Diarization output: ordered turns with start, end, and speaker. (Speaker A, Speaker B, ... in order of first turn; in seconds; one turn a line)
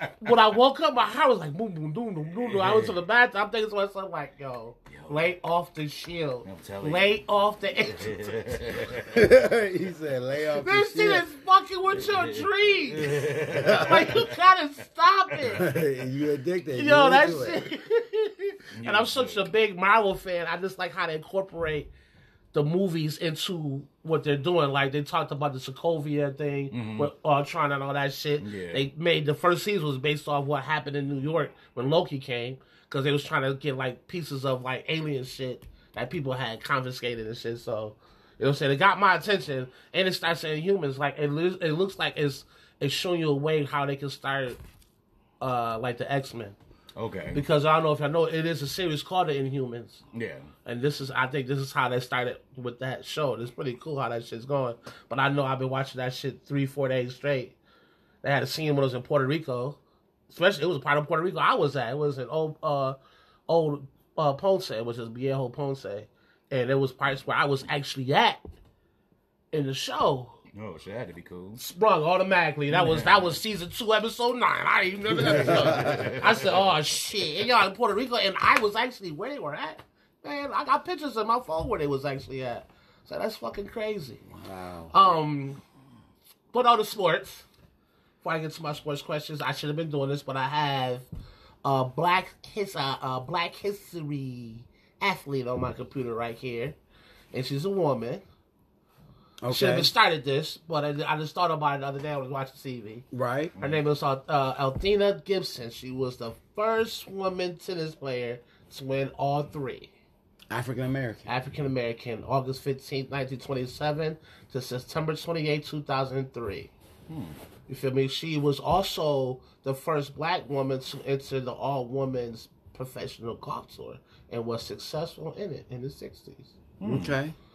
Speaker A: 0.2-8.6
Speaker B: 2.4-3.0
Speaker B: 4.9-5.3
Speaker B: 6.5-7.2
Speaker B: 7.9-9.2
Speaker C: 9.1-11.3
Speaker A: 10.6-15.6
Speaker B: 12.0-14.3
Speaker C: 13.5-14.0
Speaker C: 15.6-17.6
Speaker A: 16.7-21.9
Speaker B: 18.7-19.5
Speaker A: 22.5-44.6
Speaker B: 26.7-27.1
Speaker B: 28.4-28.9
Speaker A: 45.4-46.6
Speaker B: 47.0-47.4
Speaker A: 47.3-50.0
Speaker B: 50.1-50.5
Speaker A: 50.6-57.6
Speaker A: 58.2-63.0
Speaker A: 63.5-68.4
Speaker A: 69.5-70.4
Speaker B: 70.5-71.6
Speaker A: 71.6-84.2
Speaker B: 72.7-73.4
Speaker C: 75.3-76.1
Speaker B: 75.4-76.8
Speaker C: 84.3-84.9
Speaker A: 84.9-85.6
Speaker A: 86.5-87.5
Speaker A: 88.2-91.1
Speaker A: 91.6-96.8
Speaker A: 97.3-98.2
Speaker C: 99.4-99.9
Speaker A: 99.5-103.1
Speaker C: 103.1-103.5
Speaker B: 103.6-103.8
Speaker A: 103.6-109.9
Speaker C: 110.5-111.3
Speaker A: 111.3-116.7
Speaker B: 117.1-117.3
Speaker A: 117.7-126.5
Speaker B: 126.8-127.2
Speaker C: 126.8-127.3